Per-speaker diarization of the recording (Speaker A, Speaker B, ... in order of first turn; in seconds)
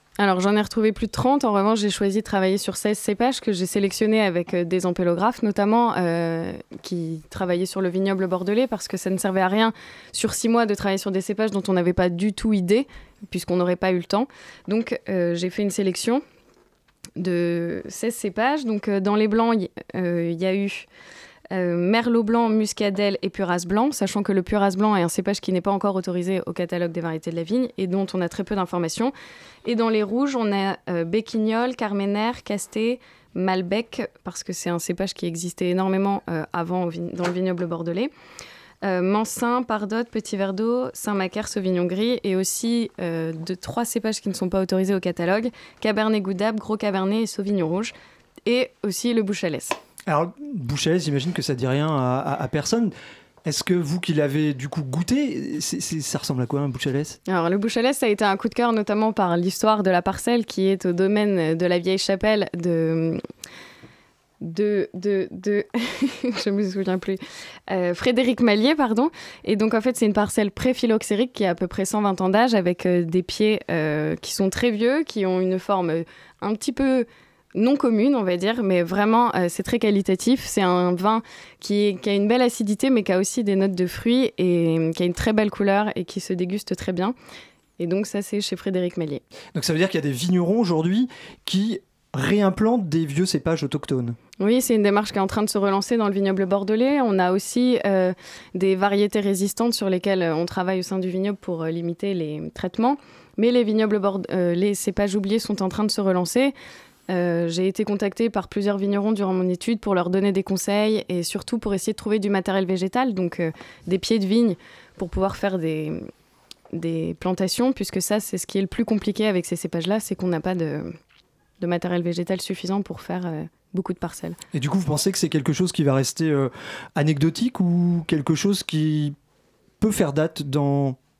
Speaker A: 0.2-16.2, 17.2-20.9, 21.5-29.1, 29.6-38.1, 38.8-47.9, 48.5-49.8, 57.3-63.2, 64.4-87.1, 87.8-89.2, 94.4-106.5, 107.1-116.1, 116.7-121.0, 121.6-124.4
Speaker B: 50.1-52.9, 53.4-57.2, 89.5-94.2, 124.5-129.2, 129.8-131.0